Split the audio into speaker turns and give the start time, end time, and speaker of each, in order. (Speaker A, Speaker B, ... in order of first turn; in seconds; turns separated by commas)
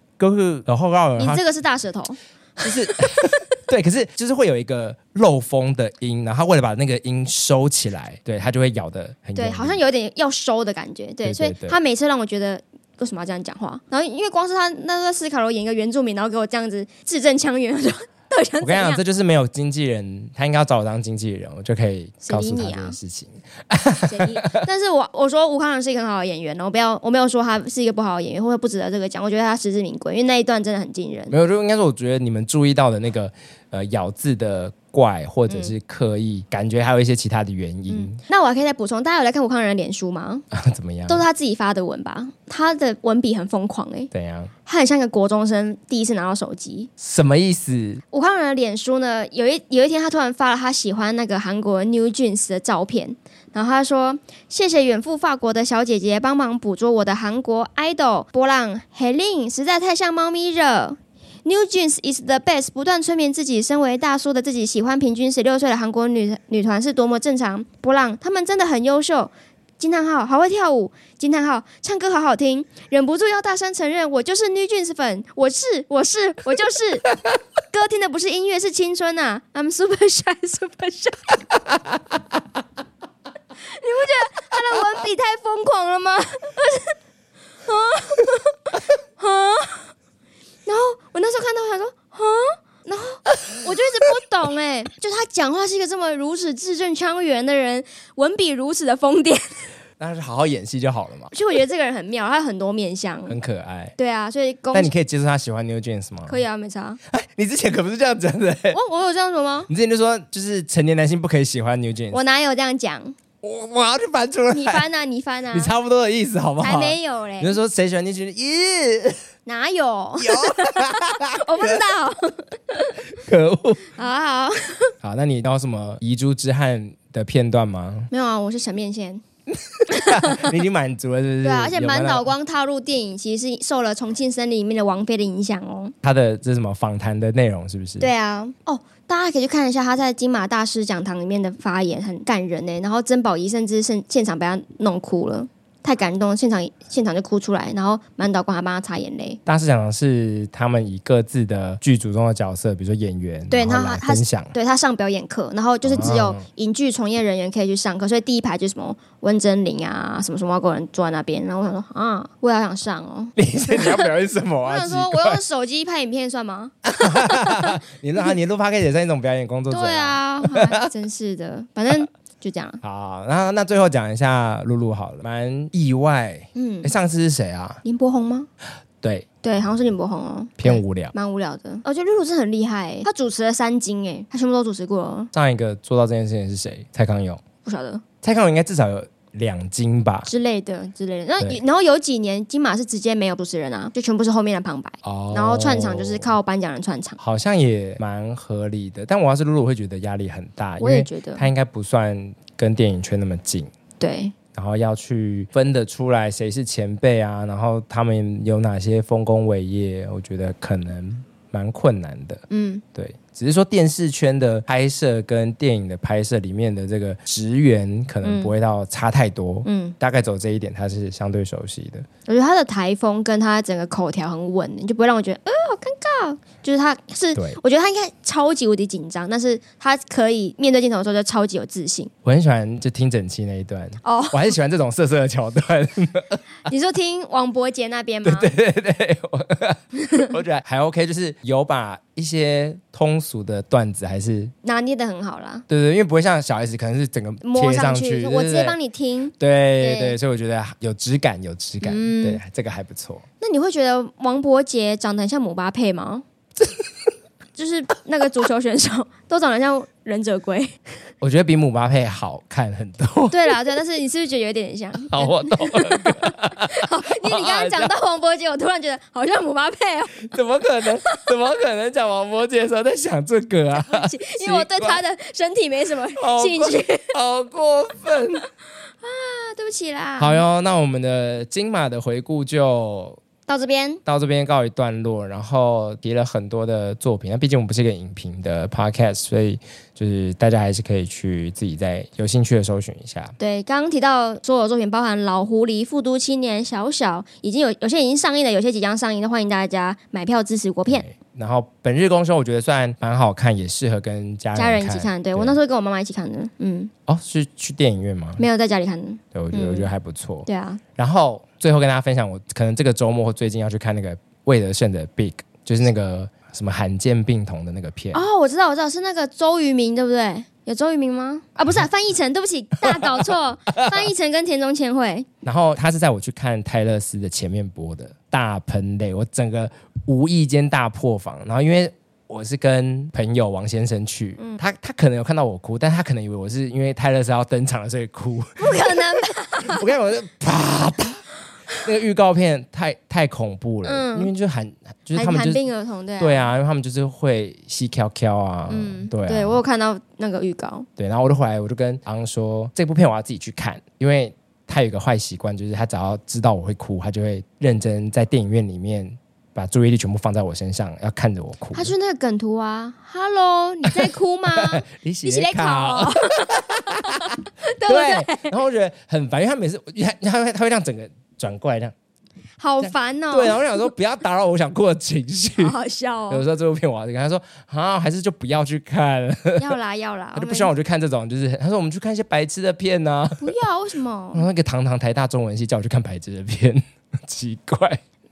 Speaker A: 0.2-1.4, Speaker B: 1.2-3.4, Speaker A: 2.6-9.8, Speaker B: 9.3-19.0, Speaker A: 11.2-11.8, Speaker A: 18.6-24.6, Speaker B: 22.2-22.9, Speaker B: 24.1-31.3, Speaker A: 31.3-38.2, Speaker B: 37.9-40.5, Speaker A: 40.5-41.3, Speaker B: 41.1-44.1, Speaker A: 44.1-44.5, Speaker B: 44.7-46.9, Speaker A: 47.0-48.0, Speaker B: 48.1-77.1, Speaker B: 77.7-81.4, Speaker B: 83.6-87.0, Speaker B: 87.7-89.9, Speaker B: 90.7-99.6, Speaker A: 100.0-101.3, Speaker B: 101.3-103.4, Speaker A: 103.3-103.9, Speaker B: 104.0-104.9, Speaker A: 104.7-106.4, Speaker B: 106.3-107.0, Speaker A: 107.1-108.8, Speaker B: 108.7-109.7, Speaker A: 109.7-112.2, Speaker B: 112.1-113.1, Speaker A: 113.4-114.8, Speaker B: 114.5-115.7, Speaker A: 115.5-119.2, Speaker B: 116.6-117.5, Speaker B: 119.5-123.1, Speaker A: 120.2-121.8, Speaker A: 123.1-123.9, Speaker B: 123.9-124.9, Speaker A: 125.0-128.1, Speaker B: 128.1-129.2, Speaker A: 129.5-132.3, Speaker B: 129.9-130.5, Speaker B: 131.4-135.9, Speaker A: 136.0-138.1, Speaker B: 138.0-149.4, Speaker A: 149.4-154.6, Speaker B: 153.5-164.1, Speaker A: 155.8-156.4, Speaker A: 163.4-165.4, Speaker B: 164.6-167.7, Speaker A: 166.9-170.7, Speaker B: 169.7-172.8, Speaker A: 172.8-177.8, Speaker B: 176.6-176.9, Speaker B: 177.8-178.5, Speaker A: 179.0-179.3, Speaker B: 179.4-185.3, Speaker A: 180.6-181.1, Speaker A: 185.3-187.4, Speaker B: 187.6-188.0, Speaker A: 188.2-190.3, Speaker B: 190.2-197.2, Speaker A: 195.0-196.3, Speaker A: 197.2-203.7, Speaker B: 200.8-201.5, Speaker B: 204.0-204.3, Speaker A: 204.5-212.4, Speaker B: 212.5-212.8, Speaker A: 212.9-222.1, Speaker B: 218.2-218.5, Speaker B: 219.6-219.9, Speaker B: 222.3-232.1, Speaker A: 232.2-236.4, Speaker B: 234.0-234.5, Speaker B: 236.7-238.5, Speaker A: 238.2-244.5, Speaker B: 244.6-245.7, Speaker A: 245.7-248.8, Speaker B: 247.4-250.1, Speaker A: 249.4-253.2, Speaker B: 251.8-252.4, Speaker B: 253.4-256.2, Speaker B: 257.6-260.8, Speaker A: 261.2-263.6, Speaker B: 263.3-270.3, Speaker A: 265.1-267.9, Speaker A: 270.2-275.0, Speaker B: 273.9-277.1, Speaker A: 276.2-278.5, Speaker B: 279.0-280.4, Speaker A: 280.2-283.2, Speaker B: 283.5-284.0, Speaker A: 284.1-293.4, Speaker B: 293.4-301.1, Speaker A: 300.9-305.6, Speaker B: 304.6-306.9, Speaker A: 307.1-308.4, Speaker B: 308.4-309.9, Speaker A: 309.3-318.2, Speaker B: 310.5-310.8, Speaker B: 318.1-325.3, Speaker A: 322.8-324.1, Speaker A: 325.4-341.2, Speaker B: 338.6-339.8, Speaker A: 341.8-345.6, Speaker B: 343.9-344.3, Speaker B: 345.1-346.5, Speaker A: 346.2-349.6, Speaker B: 348.7-350.9, Speaker A: 351.0-361.9, Speaker B: 361.7-368.5, Speaker A: 364.1-371.9, Speaker B: 372.6-373.9, Speaker A: 372.8-375.7, Speaker B: 375.6-376.4, Speaker A: 376.3-379.7, Speaker B: 379.6-380.7, Speaker A: 380.4-383.6, Speaker B: 383.4-384.4, Speaker A: 384.3-388.0